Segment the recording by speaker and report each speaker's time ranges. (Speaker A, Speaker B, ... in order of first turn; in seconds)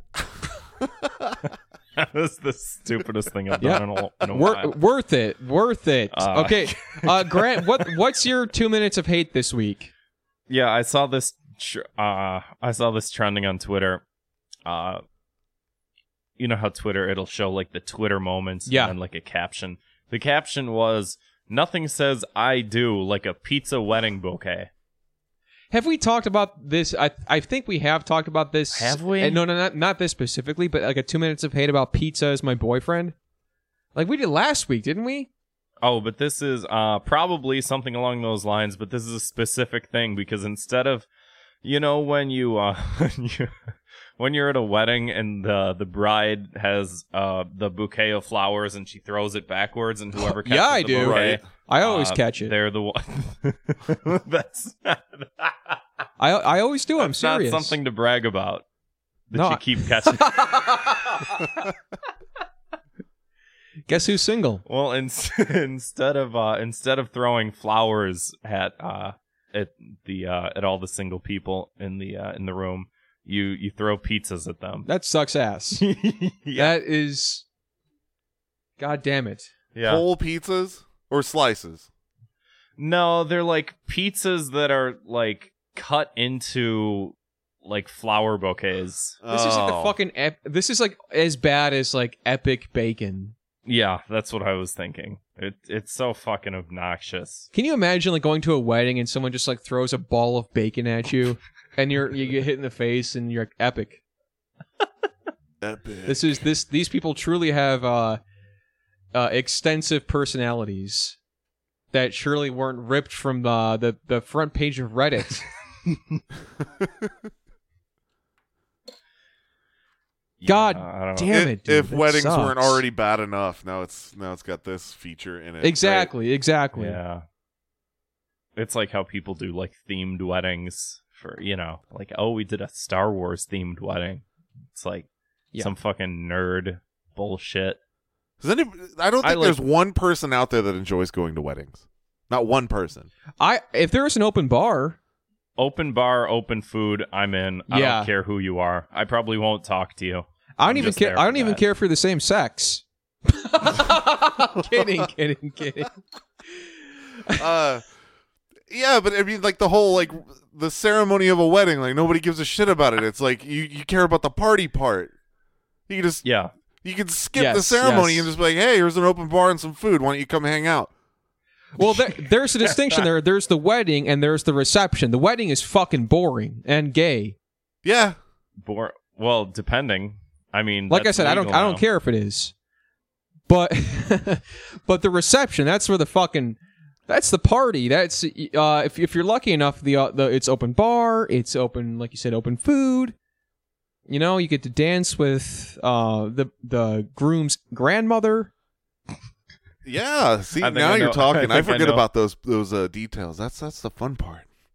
Speaker A: 2.0-4.7, 6.1-7.9, 10.5-14.0, 14.7-15.0, 16.4-24.7, 28.7-29.4, 35.8-41.0, 41.6-55.8, 57.0-58.6, 59.3-61.4, 64.7-74.9, 75.8-76.7, 79.7-80.0, 82.8-87.1, 87.6-89.2, 93.7-97.5, 120.4-121.3, 126.7-127.2, 128.6-137.8, 139.2-139.6, 145.6-151.6, 166.2-166.5, 172.6-173.0, 178.6-181.8, 200.6-202.0
Speaker B: 3.6-9.9, 18.6-18.9, 25.7-33.1, 33.9-35.3, 50.4-52.5, 56.2-57.8, 59.3-61.5, 63.9-64.6, 74.8-75.8, 76.5-77.4, 78.8-79.5, 89.3-93.3, 97.5-104.0, 106.0-108.2, 109.1-111.2, 111.9-115.5, 120.4-122.8, 125.6-127.0, 143.4-145.0, 147.7-148.1, 150.6-155.9, 167.3-168.3, 171.7-177.3, 180.9-182.5, 183.5-193.1, 194.1-198.5
Speaker C: 50.9-51.4, 79.8-81.9, 89.2-90.0, 105.6-106.4, 116.8-117.1, 121.3-126.1, 138.4-143.1, 157.3-157.9, 158.7-165.1, 165.9-166.2, 166.8-170.9, 177.8-178.2, 199.8-204.5